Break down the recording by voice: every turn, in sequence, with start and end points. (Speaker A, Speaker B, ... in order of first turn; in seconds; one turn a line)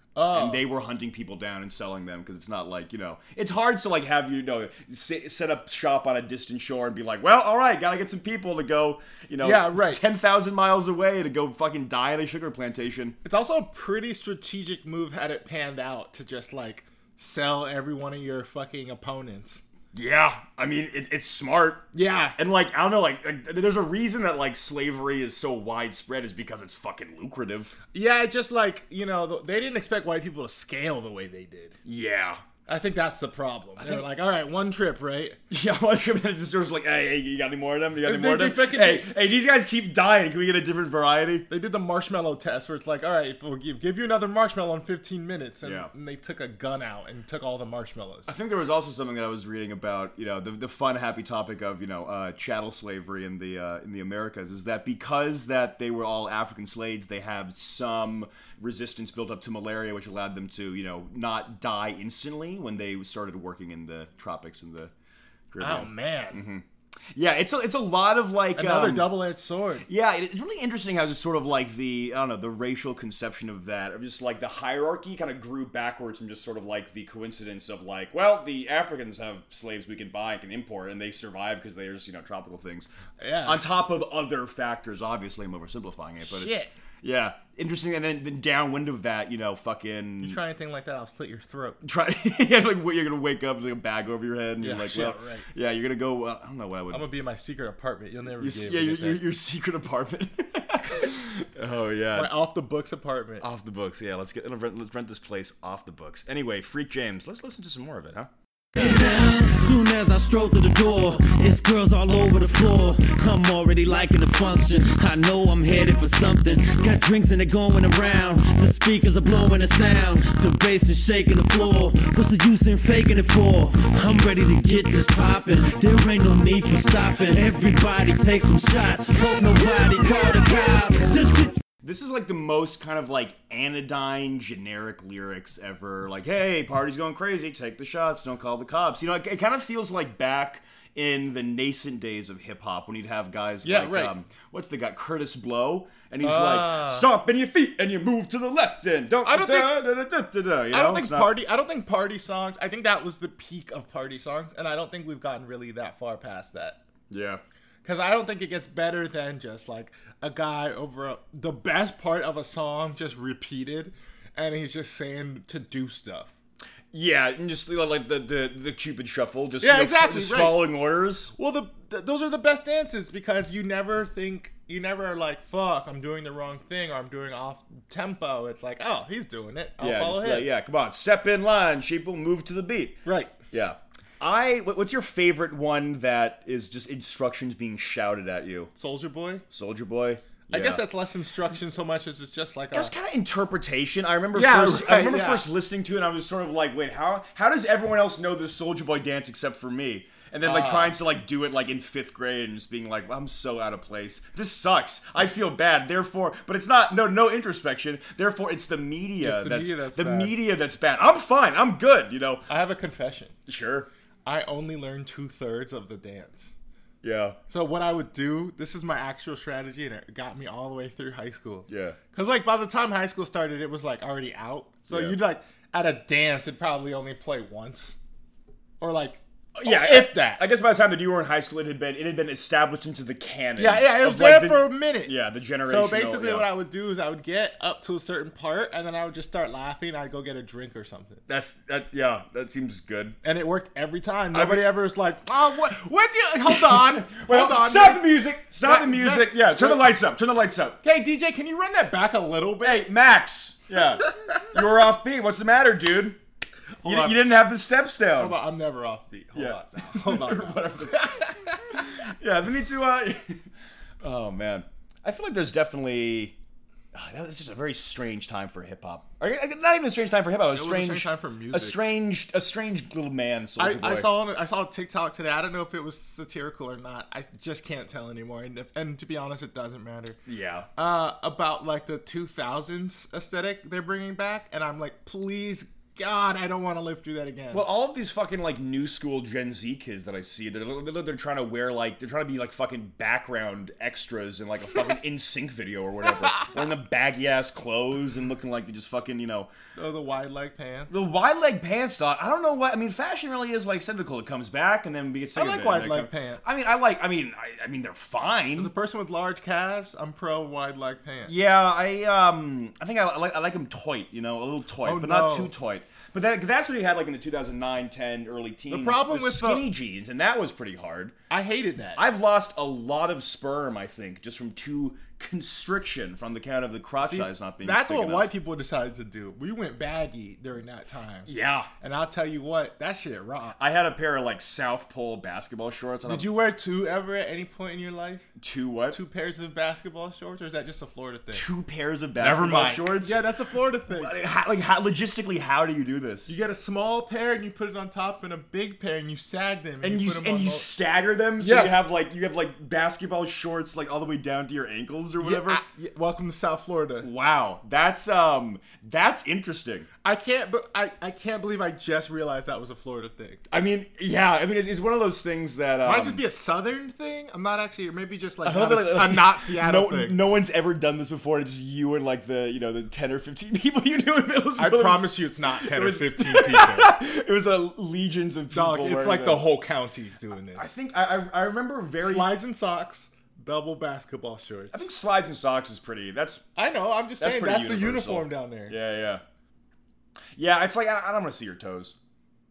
Speaker A: 0.1-0.6
Speaker B: 0.3-13.2
Speaker A: 9.4-10.0
Speaker A: 13.2-19.6
Speaker B: 19.9-27.8
Speaker A: 21.9-22.4
Speaker A: 27.9-31.8
Speaker B: 31.8-32.4
Speaker A: 32.7-35.4
Speaker B: 35.5-41.5
Speaker A: 38.0-39.1
Speaker A: 41.5-48.3
Speaker B: 45.6-45.9
Speaker B: 48.3-64.9
Speaker B: 65.5-66.6
Speaker A: 65.6-66.4
Speaker B: 67.1-69.2
Speaker A: 68.5-69.9
Speaker B: 69.9-82.9
Speaker A: 83.2-83.6
Speaker B: 83.4-90.4
Speaker A: 86.2-86.7
Speaker A: 90.2-91.8
Speaker B: 91.8-97.0
Speaker A: 94.6-95.5
Speaker A: 96.9-99.2
Speaker B: 98.4-102.3
Speaker A: 102.1-103.4
Speaker B: 103.4-108.3
Speaker C: 108.8-131.6
Speaker B: 131.8-151.3
Speaker A: 143.6-144.1
Speaker A: 146.2-147.1
Speaker A: 149.2-149.8
Speaker A: 150.7-156.8
Speaker B: 157.1-157.4
Speaker A: 157.8-166.3
Speaker B: 166.9-171.3
Speaker A: 169.6-170.7
Speaker A: 171.3-180.5
Speaker B: 179.8-183.0
Speaker A: 183.0-183.3
Speaker B: 183.5-188.7
Speaker A: 188.7-189.4
Speaker B: 189.5-190.8
Speaker A: 190.5-192.9
Speaker B: 192.7-212.4
Speaker A: 194.3-195.4
Speaker A: 200.4-200.9
Speaker A: 209.2-210.3
Speaker A: 212.5-213.3
Speaker B: 213.5-213.9
Speaker A: 214.2-216.5
Speaker B: 217.0-217.4
Speaker A: 217.5-228.0
Speaker B: 221.7-222.0
Speaker B: 224.9-225.2
Speaker A: 228.8-230.4
Speaker B: 229.6-236.5
Speaker A: 233.6-241.2
Speaker B: 241.3-243.2
Speaker A: 243.2-248.1
Speaker B: 244.3-244.7
Speaker B: 246.7-250.8
Speaker A: 248.6-249.9
Speaker A: 250.8-252.9
Speaker B: 252.6-256.2
Speaker A: 256.8-257.2
Speaker B: 256.8-258.4
Speaker A: 258.2-261.6
Speaker B: 259.3-263.4
Speaker B: 264.0-266.4
Speaker B: 266.9-274.1
Speaker A: 270.5-271.8
Speaker A: 273.6-280.2
Speaker B: 280.2-280.7
Speaker A: 280.8-287.6
Speaker B: 287.5-299.5
Speaker A: 299.8-301.0
Speaker B: 300.9-308.7
Speaker A: 305.3-306.4
Speaker A: 308.6-311.3
Speaker B: 311.2-321.1
Speaker A: 314.8-315.5
Speaker A: 318.7-319.6
Speaker A: 321.3-322.0
Speaker B: 321.9-328.3
Speaker A: 327.0-333.6
Speaker B: 331.2-331.7
Speaker B: 333.6-336.3
Speaker A: 336.0-338.2
Speaker B: 338.4-339.0
Speaker A: 338.9-341.4
Speaker B: 341.3-343.2
Speaker A: 342.2-344.1
Speaker B: 343.9-346.3
Speaker A: 346.3-350.7
Speaker B: 349.8-355.6
Speaker A: 351.4-351.8
Speaker A: 355.2-357.1
Speaker B: 357.0-359.9
Speaker A: 360.0-363.4
Speaker B: 363.5-366.2
Speaker A: 365.8-370.2
Speaker B: 368.4-379.4
Speaker A: 374.6-376.9
Speaker A: 378.5-380.7
Speaker B: 380.5-382.3
Speaker A: 382.0-384.9
Speaker B: 384.7-386.4
Speaker A: 386.6-388.8
Speaker B: 387.2-389.2
Speaker B: 390.4-391.9